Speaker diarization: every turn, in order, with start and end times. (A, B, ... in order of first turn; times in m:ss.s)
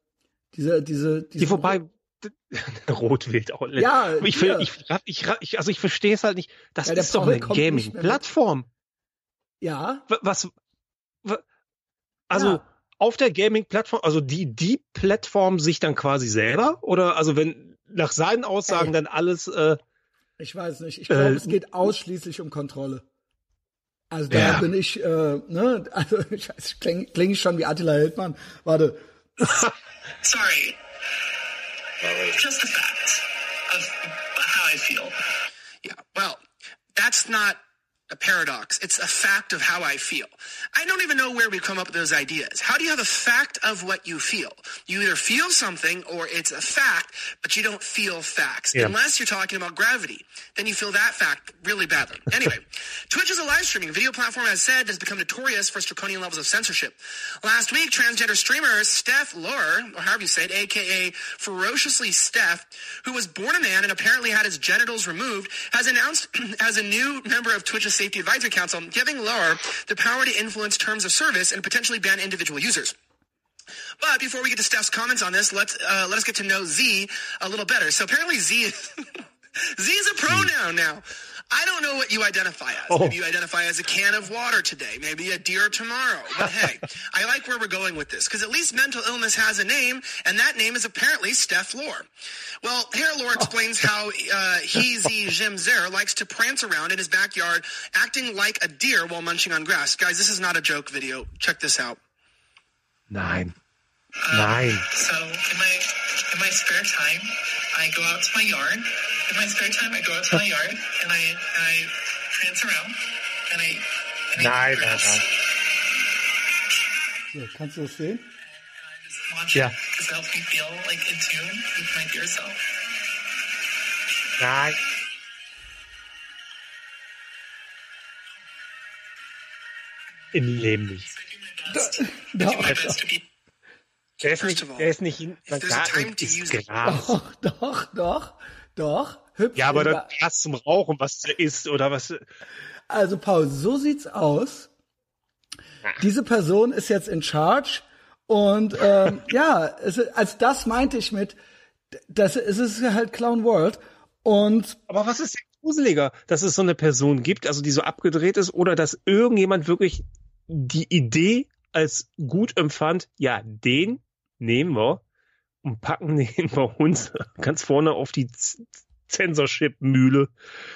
0:00.5-0:01.8 A
0:01.4-0:08.7 B
0:03.8-0:04.7 A
0:06.8-0:08.2 A
0:09.6-0:10.0 A
0:10.1-0:10.5 B
0:12.3-0:19.8 B
0:12.3-0:12.6 A
0:20.4-0:23.0 A
0:21.1-0:21.5 B
0:24.1-0:29.6 A
0:24.3-0:24.6 B
0:32.4-0:32.8 C
0:34.6-0:35.1 C
0:35.8-0:36.4 D
0:37.0-1:12.9 D
1:14.0-1:32.1 D
1:22.9-1:23.2 B
1:32.6-1:42.0 D
1:43.1-1:43.5 B
1:44.3-1:52.9 C
1:44.3-1:44.9 B
1:53.5-1:53.8 C
1:54.4-1:55.2 B
1:54.4-1:55.0 C
1:57.3-1:58.3 A
1:59.3-2:02.6 C
2:04.4-2:04.8 B
2:10.3-2:11.1 B
2:11.7-2:13.0 A
2:12.4-2:13.2 D
2:14.2-2:14.9 D
2:14.2-2:17.2 B
2:15.5-2:16.7 D
2:16.8-2:20.1 A
2:19.6-2:22.2 B
2:22.9-2:24.7 A
2:26.0-2:31.4 A
2:32.1-2:34.8 A
2:34.9-2:45.0 B
2:45.6-2:50.3 B